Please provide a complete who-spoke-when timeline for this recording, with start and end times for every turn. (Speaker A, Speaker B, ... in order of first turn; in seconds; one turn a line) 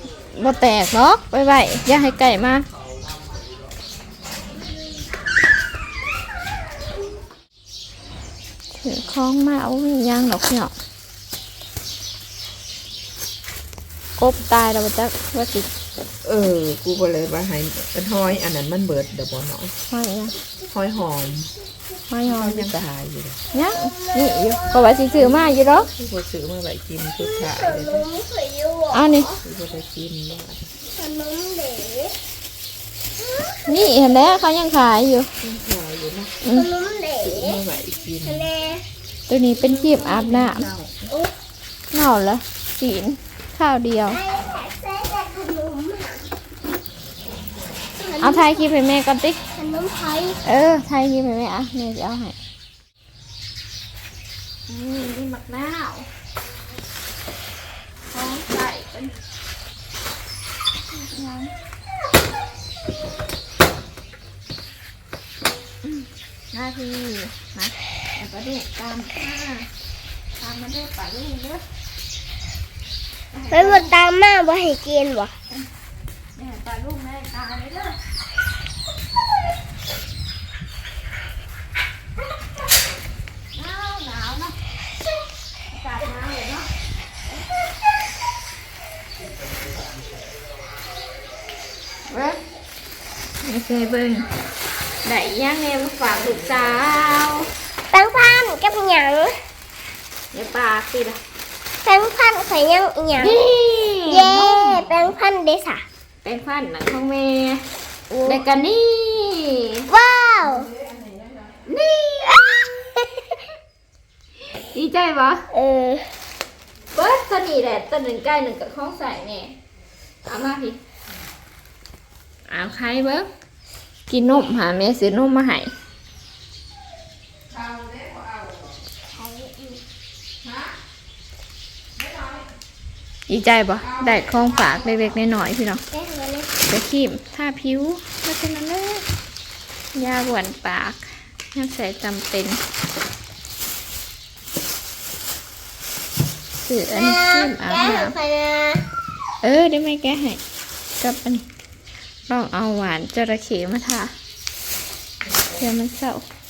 Speaker A: 0.3-2.6
Speaker A: 8.8-10.7
Speaker A: 14.2-15.7
Speaker B: 16.2-19.7
Speaker A: 19.9-20.3
Speaker B: 20.7-21.5
Speaker A: 22.1-22.8
Speaker B: 22.2-23.4
Speaker C: 23.5-25.4
Speaker A: 23.5-25.9
Speaker B: 25.2-28.1
Speaker C: 27.2-29.4
Speaker A: 28.9-29.3
Speaker B: 29.4-30.6
Speaker C: 30.9-32.1
Speaker C: 33.2-34.0
Speaker A: 33.6-35.3
Speaker B: 35.4-36.4
Speaker C: 36.5-37.6
Speaker B: 37.2-38.5
Speaker C: 38.2-38.8
Speaker A: 39.3-40.7
Speaker B: 39.8-41.1
Speaker C: 41.1-41.3
Speaker A: 41.9-44.2
Speaker C: 44.1-46.2
Speaker C: 48.0-48.7
Speaker A: 48.2-49.4
Speaker C: 49.5-50.4
Speaker A: 50.4-52.4
Speaker A: 54.7-56.1
Speaker A: 58.1-59.1
Speaker A: 60.9-61.5
Speaker A: 65.8-69.7
Speaker A: 70.4-71.6
Speaker A: 73.3-74.0
Speaker C: 73.5-75.3
Speaker A: 76.3-78.0
Speaker A: 83.5-84.6
Speaker A: 85.7-86.7
Speaker A: 92.1-92.4
Speaker A: 93.4-94.3
Speaker A: 95.0-97.5
Speaker C: 97.9-99.3
Speaker A: 100.3-101.2
Speaker C: 101.8-103.4
Speaker A: 103.2-104.9
Speaker C: 104.1-105.8
Speaker A: 106.2-107.6
Speaker C: 108.1-108.4
Speaker A: 108.2-109.8
Speaker C: 109.9-110.7
Speaker A: 111.7-112.4
Speaker C: 112.2-113.4
Speaker A: 114.7-115.4
Speaker C: 115.5-116.1
Speaker A: 116.9-119.5
Speaker A: 120.2-120.8
Speaker A: 122.5-123.3
Speaker A: 124.1-125.7
Speaker C: 129.1-129.8
Speaker A: 133.3-135.8
Speaker C: 135.9-136.5
Speaker A: 136.6-139.0
Speaker A: 139.9-142.6
Speaker A: 146.6-148.2
Speaker C: 146.9-148.8
Speaker A: 149.4-150.4
Speaker A: 151.0-151.4
Speaker A: 152.3-154.1
Speaker B: 155.2-155.6
Speaker A: 155.6-156.2